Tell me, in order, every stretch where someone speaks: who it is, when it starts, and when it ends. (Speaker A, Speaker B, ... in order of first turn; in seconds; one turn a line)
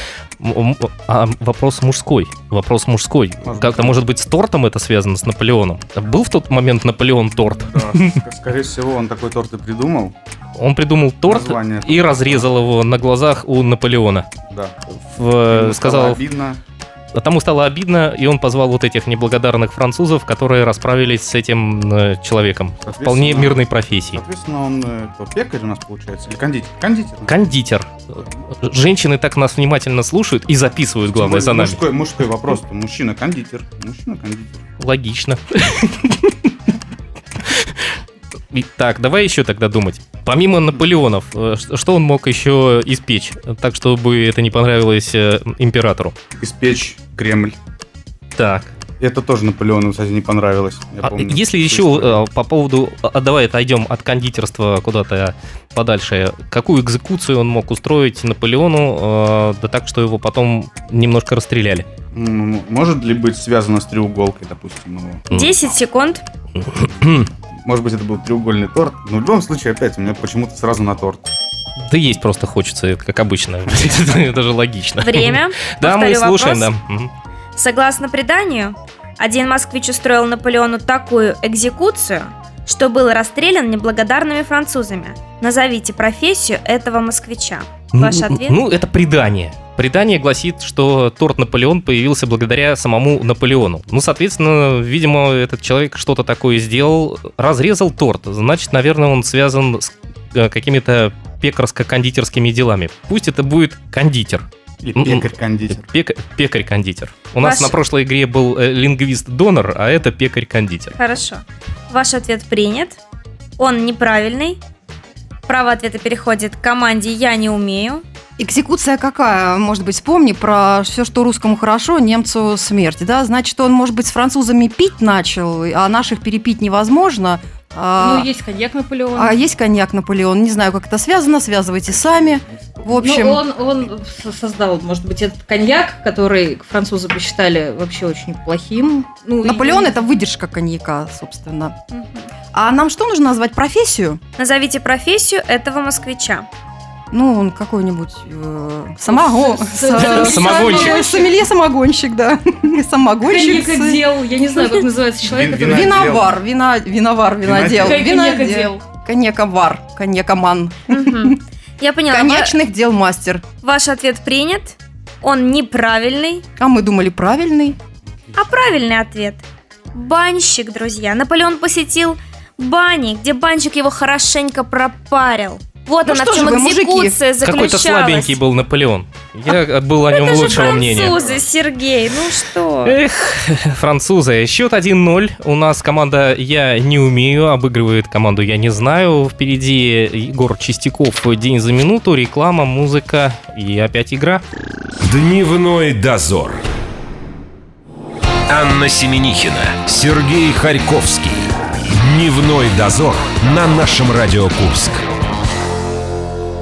Speaker A: 0.4-8.2
Speaker B: 3.4-4.0
Speaker B: 7.6-10.1
Speaker A: 10.6-14.3
Speaker B: 11.3-12.5
Speaker B: 14.5-14.8
Speaker A: 14.9-16.2
Speaker B: 15.5-16.6
Speaker A: 17.1-24.2
Speaker B: 22.8-27.3
Speaker A: 27.3-27.9
Speaker A: 28.6-31.8
Speaker B: 31.1-34.6
Speaker A: 34.8-36.4
Speaker A: 38.5-46.1
Speaker B: 46.4-47.5
Speaker A: 48.4-48.7
Speaker B: 49.0-52.2
Speaker A: 51.0-61.9
Speaker B: 62.1-65.3
Speaker C: 65.3-66.2
Speaker A: 66.6-67.3
Speaker B: 67.7-71.3
Speaker A: 71.8-77.1
Speaker C: 75.0-76.7
Speaker C: 77.5-88.6
Speaker A: 87.9-110.9
Speaker B: 104.8-105.8
Speaker C: 107.4-107.8
Speaker C: 111.0-113.0
Speaker C: 113.6-114.6
Speaker C: 115.5-118.0
Speaker D: 118.4-128.3
Speaker E: 128.0-129.4
Speaker D: 129.1-133.4
Speaker E: 132.9-140.0
Speaker D: 139.4-141.7
Speaker C: 141.9-142.3
Speaker D: 142.5-144.2
Speaker C: 144.4-146.5
Speaker D: 147.1-154.0
Speaker E: 149.1-151.3
Speaker A: 150.2-150.9
Speaker E: 153.2-155.8
Speaker B: 155.2-156.3
Speaker D: 155.6-161.4
Speaker B: 157.4-158.0
Speaker E: 157.8-158.8
Speaker C: 160.9-162.6
Speaker D: 162.1-163.4
Speaker C: 163.6-166.4
Speaker D: 166.6-167.8
Speaker C: 168.3-169.4
Speaker C: 169.9-178.4
Speaker D: 176.0-177.2
Speaker A: 177.4-181.2
Speaker C: 180.1-183.0
Speaker B: 180.4-181.4
Speaker A: 182.8-194.4
Speaker A: 195.1-196.5
Speaker F: 195.1-196.6
Speaker F: 198.5-205.1
Speaker A: 204.3-204.8